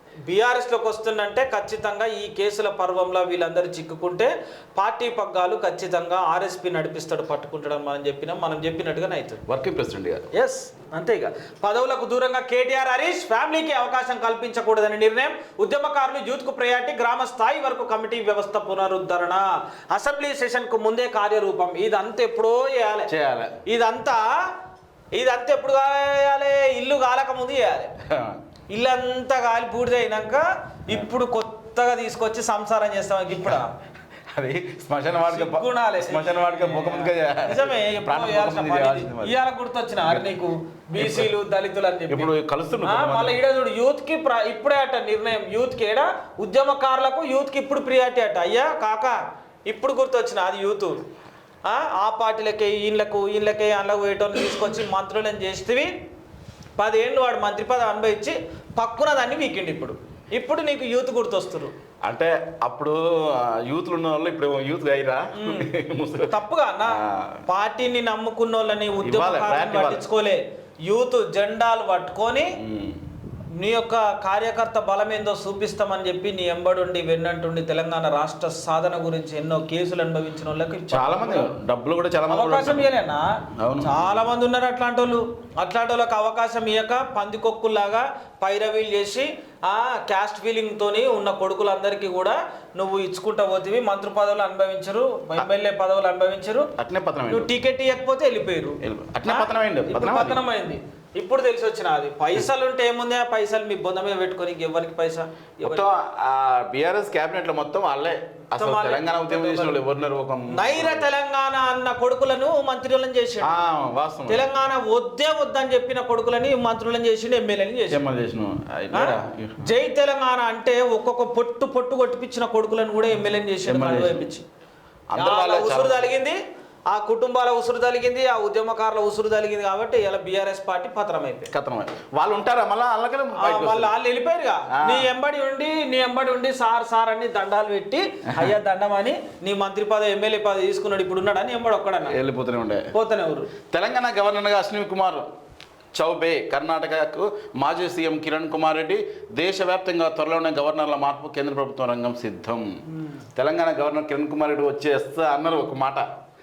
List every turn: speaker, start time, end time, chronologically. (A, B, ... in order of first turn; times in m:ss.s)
0:00.3-0:09.4 A
0:09.5-0:10.3 B
0:10.3-0:23.1 A
0:23.1-0:23.6 B
0:23.6-0:24.5 A
0:25.1-0:27.9 A
0:28.1-0:28.4 B
0:28.7-0:33.7 A
0:34.3-0:39.4 B
0:35.3-0:42.3 A
0:40.0-0:40.3 B
0:41.0-0:41.3 B
0:42.1-0:43.4 B
0:42.8-0:51.0 A
0:51.6-0:56.0 A
0:56.8-1:01.7 A
1:02.0-1:06.3 B
1:05.4-1:05.7 A
1:06.3-1:12.6 A
1:06.9-1:07.4 B
1:09.0-1:10.0 B
1:12.6-1:13.0 B
1:13.6-1:21.5 A
1:20.9-1:22.9 B
1:22.3-1:23.3 A
1:23.6-1:24.2 B
1:23.8-1:36.7 A
1:36.8-1:37.5 B
1:37.3-1:45.9 A
1:38.8-1:40.4 B
1:45.6-1:51.1 B
1:48.6-1:49.8 A
1:50.5-1:53.6 A
1:53.4-1:54.5 B
1:54.3-1:58.0 A
1:57.9-1:59.7 B
1:58.9-2:04.4 A
2:03.7-2:04.3 B
2:05.1-2:06.1 B
2:05.2-2:06.4 A
2:06.9-2:11.5 A
2:11.5-2:13.9 B
2:13.3-2:22.2 A
2:14.7-2:15.1 B
2:22.1-2:22.9 B
2:22.9-2:23.5 A
2:23.7-2:25.3 B
2:25.9-2:32.7 B
2:33.4-2:36.0 B